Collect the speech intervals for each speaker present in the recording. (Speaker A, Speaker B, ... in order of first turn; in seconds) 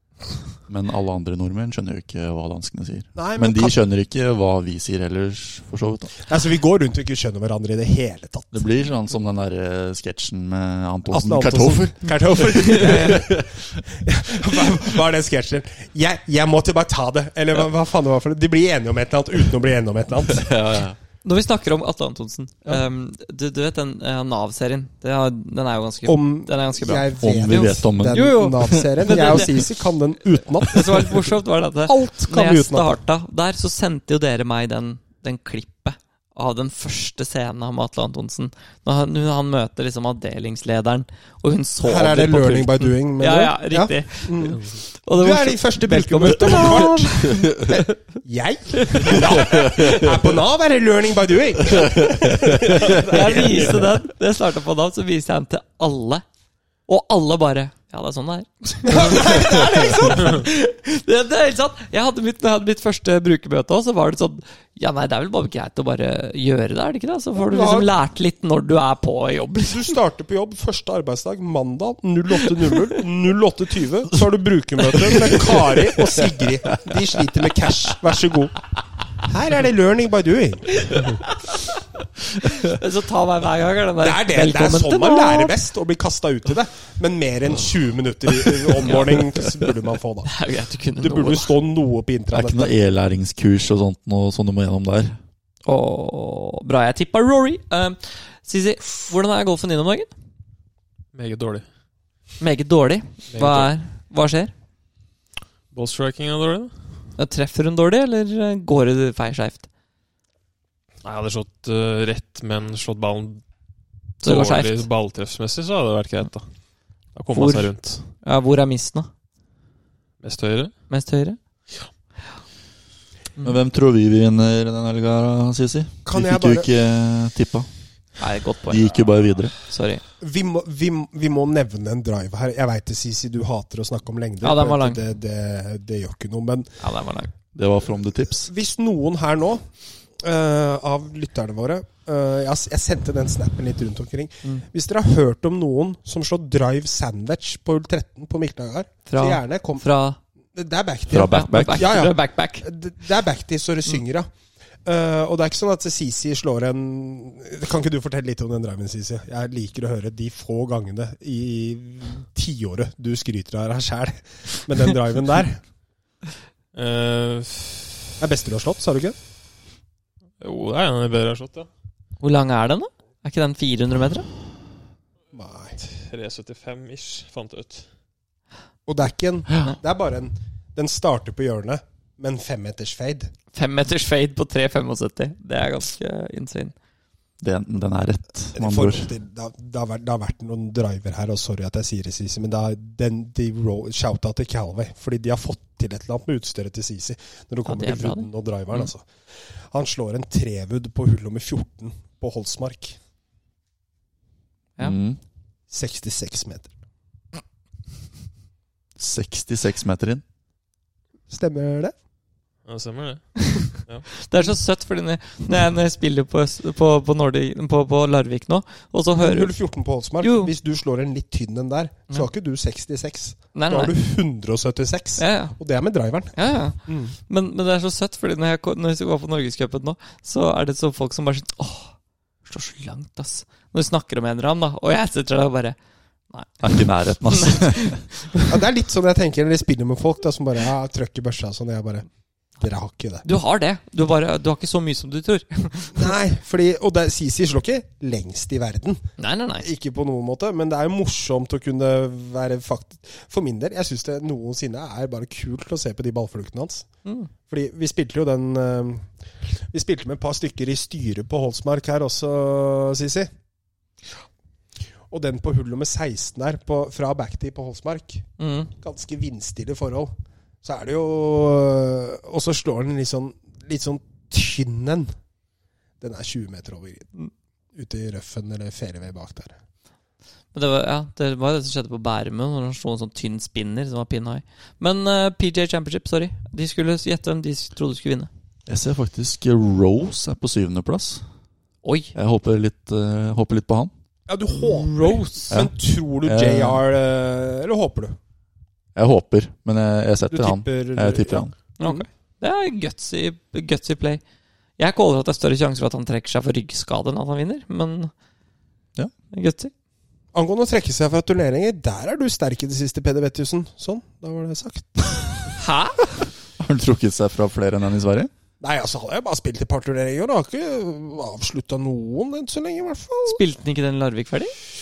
Speaker A: 0.7-6.2, 8.5-13.8, 20.3-21.0, 27.2-29.7, 47.4-47.7, 49.4-50.1, 51.7-53.6, 92.3-95.2, 123.4-127.7, 128.7-129.6, 137.6-138.5, 151.1-152.0, 187.4-189.1, 204.8-205.2, 209.0-210.2, 236.6-238.0, 288.7-291.2, 292.1-293.9, 295.5-296.8, 299.0-301.5, 316.6-318.3
Speaker B: 3.2-3.8, 6.3-8.6, 11.1-20.5, 26.1-31.3, 31.9-33.0, 41.8-44.6, 45.2-53.9, 58.9-60.5, 67.4-67.9, 69.7-78.6, 79.2-81.2, 84.0-90.3, 91.0-92.7, 126.0-126.7, 130.2-136.7, 138.4-139.6, 140.2-149.8, 150.5-154.3, 154.8-165.6, 168.2-169.2, 175.3-175.8, 178.9-183.3, 188.6-203.0, 205.7-206.7, 211.3-211.9, 219.2-227.2, 238.5-242.1, 242.6-243.3, 245.9-249.0, 249.6-256.9, 257.5-263.3, 265.1-275.1, 276.0-277.1, 277.8-279.6, 294.3-298.2, 300.3-302.0, 310.3-315.6, 318.6-323.4
Speaker C: 21.2-29.6, 30.7-47.8, 48.8-49.5, 52.9-56.2, 56.9-70.0, 80.9-81.8, 82.4-85.6, 88.8-89.2, 90.2-91.5, 95.7-100.1, 102.4-104.5, 107.2-109.7, 114.2-114.9, 117.3-119.1, 120.9-121.4, 128.2-130.0, 134.4-135.0, 136.8-137.3, 149.1-150.2, 151.3-152.7, 172.2-174.3, 183.5-186.7, 197.7-198.9, 213.4-219.5, 220.2-220.5, 223.5-223.9, 225.2-225.6, 226.3-235.8, 236.3-238.5, 243.2-246.1, 249.2-249.7, 257.1-257.3, 268.4-268.7, 280.5-288.3, 291.8-292.1, 294.6-295.5, 301.8-304.2, 304.8-308.1, 309.3-309.7, 315.6-316.1, 323.3-324.5
Speaker D: 101.1-101.7, 103.3-103.7, 105.7-106.7, 111.0-113.4, 114.2-116.5, 117.2-118.1, 120.2-120.7, 166.7-168.1, 170.4-171.7, 175.8-177.9, 212.7-214.1